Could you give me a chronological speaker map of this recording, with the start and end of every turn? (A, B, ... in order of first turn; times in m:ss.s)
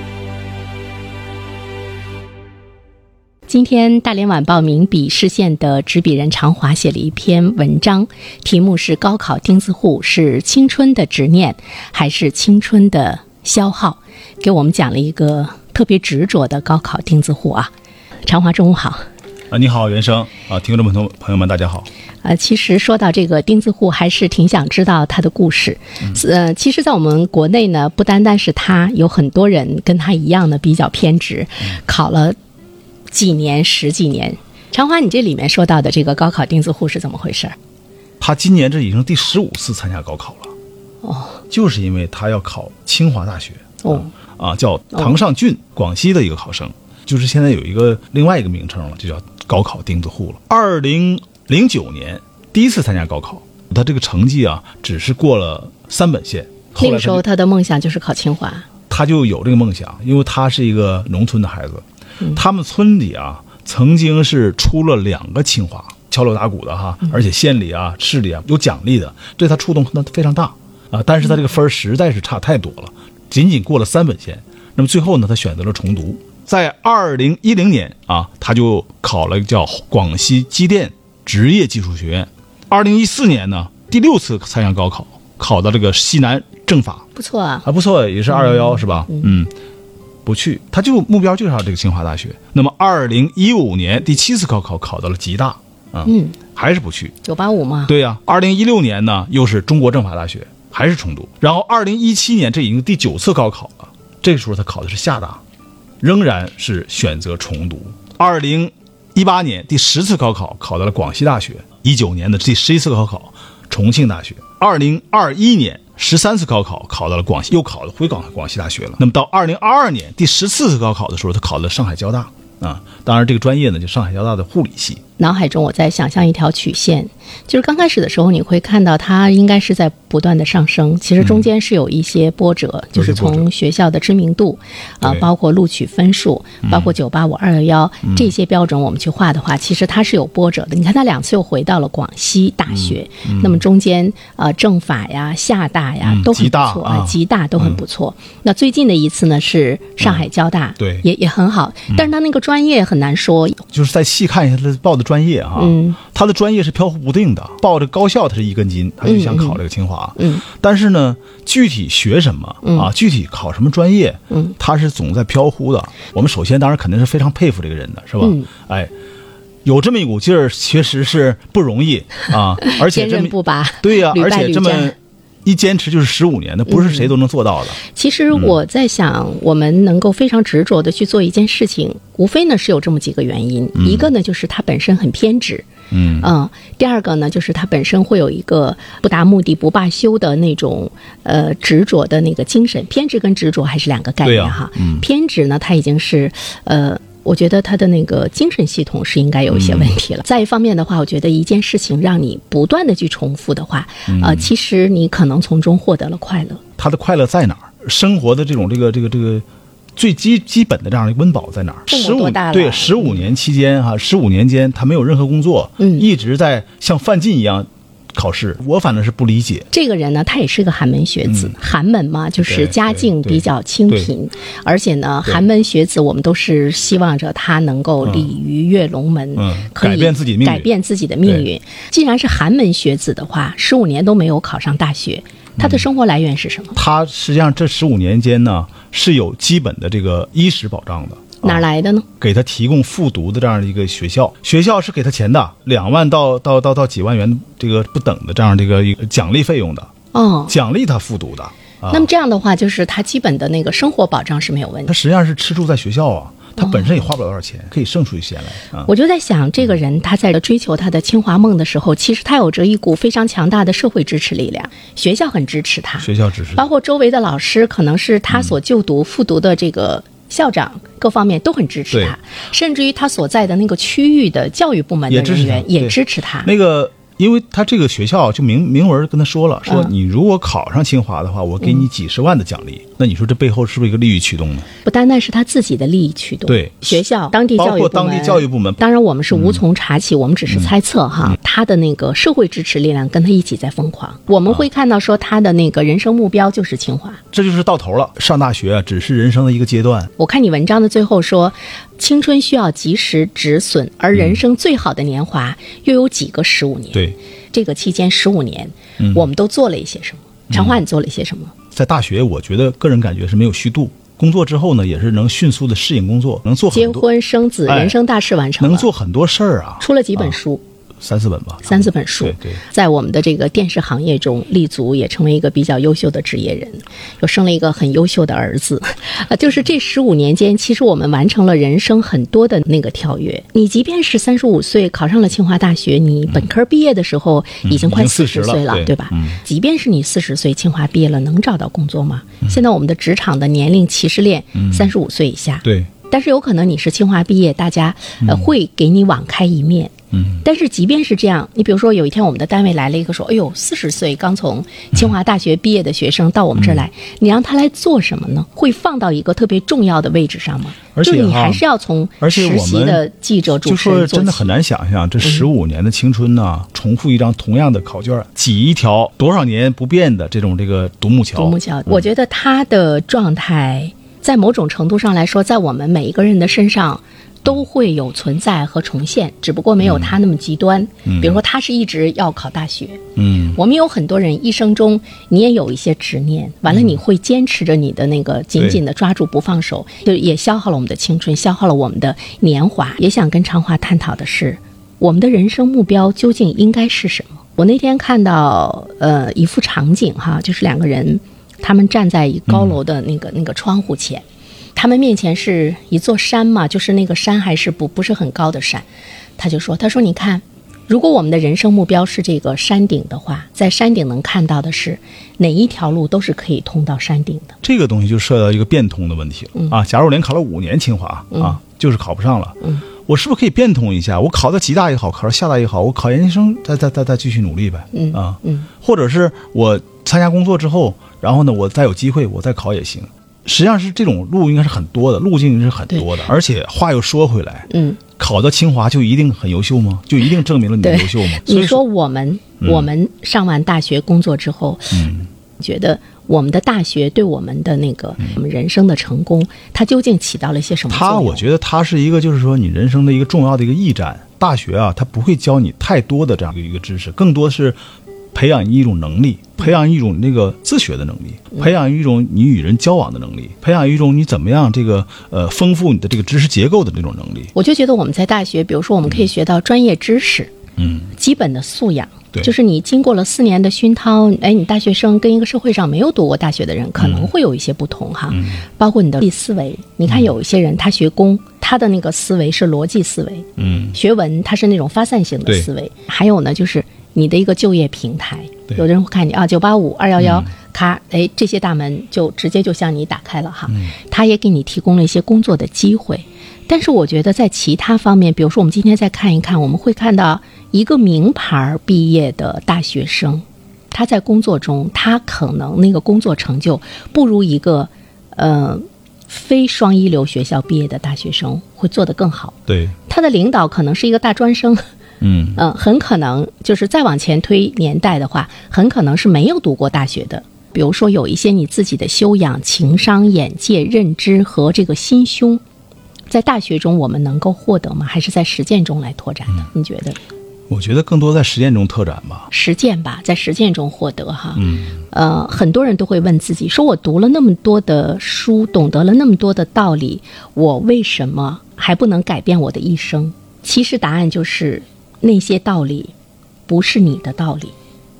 0:03.5-0:17.7 A
0:18.2-0:19.0 A
0:19.5-0:21.9 B
0:22.2-0:32.4 A
0:33.1-0:37.6 A
0:38.2-0:40.5 B
0:41.0-0:41.4 A
0:41.5-0:57.2 B
0:43.8-0:44.1 A
0:56.8-0:58.7 A
0:58.9-1:27.1 B
1:27.2-1:27.7 A
1:27.6-1:29.5 B
1:28.3-1:29.3 A
1:30.2-1:37.1 B
1:36.1-1:36.4 A
1:37.2-1:37.9 A
1:37.9-1:45.4 B
1:46.0-2:05.0 B
2:05.2-2:33.6 A
2:13.0-2:13.5 B
2:15.0-2:15.3 B
2:16.7-2:16.9 B
2:22.7-2:23.6 B
2:26.0-2:27.8 B
2:30.8-2:31.1 B
2:33.7-2:48.9 B
2:35.6-2:36.0 A
2:39.0-2:39.6 A
2:40.2-2:40.4 A
2:42.6-2:42.9 A
2:48.2-2:48.5 A
2:49.6-2:57.8 B
2:52.6-2:54.9 A
2:56.7-2:57.1 A
2:57.8-3:05.7 A
3:03.8-3:04.1 B
3:05.9-3:06.3 B
3:06.2-3:26.6 A
3:14.2-3:15.0 B
3:19.5-3:19.9 B
3:24.1-3:24.5 B
3:26.8-3:29.4 B
3:30.0-3:39.7 B
3:31.9-3:33.3 A
3:35.8-3:36.1 A
3:39.7-3:56.8 A
3:41.3-3:41.5 B
3:42.4-3:44.1 B
3:49.4-3:50.7 B
3:56.8-4:01.6 B
4:01.4-4:02.1 A
4:02.2-4:09.9 B
4:10.1-4:10.6 A
4:10.5-4:12.1 B
4:11.9-4:14.9 A
4:14.9-4:18.9 B
4:16.6-4:16.9 A
4:18.8-4:36.5 A
4:26.0-4:26.6 B
4:35.1-4:44.7 B
4:44.8-4:57.2 A
4:46.5-4:47.0 B
4:47.6-4:48.8 B
4:49.3-4:49.6 B
4:57.3-5:00.1 B
5:00.2-5:11.5 A
5:04.2-5:04.4 B
5:10.5-5:10.8 B
5:11.7-5:17.0 B
5:16.7-5:18.9 A
5:17.7-5:18.0 B
5:18.6-5:20.3 B
5:19.8-5:20.6 A
5:21.0-5:22.6 B
5:21.7-6:04.5 A
5:37.6-5:39.4 B
5:48.2-5:48.5 B
5:50.1-5:50.4 B
6:01.0-6:01.6 B
6:02.2-6:03.0 B
6:03.6-6:12.0 B
6:05.2-6:05.5 A
6:11.4-6:44.2 A
6:19.8-6:20.2 B
6:21.1-6:21.4 B
6:23.2-6:23.6 B
6:42.5-6:42.8 B
6:44.8-6:48.8 A
6:49.4-6:57.6 A
6:57.6-7:21.8 B
7:01.3-7:01.6 A
7:07.9-7:08.7 A
7:17.7-7:18.0 A
7:20.8-7:31.4 A
7:22.6-7:22.9 B
7:24.9-7:25.3 B
7:30.9-7:37.8 B
7:38.3-7:47.5 B
7:47.6-7:50.5 A
7:50.8-7:51.1 B
7:51.2-8:34.8 A
7:57.0-7:57.3 B
7:58.3-7:58.6 B
8:03.6-8:04.0 B
8:10.2-8:10.5 B
8:32.7-8:33.0 B
8:35.2-8:35.6 B
8:35.6-8:45.6 A
8:46.3-8:50.2 A
8:50.7-8:52.5 B
8:52.5-9:06.1 A
8:54.6-8:55.0 B
9:06.7-9:07.8 A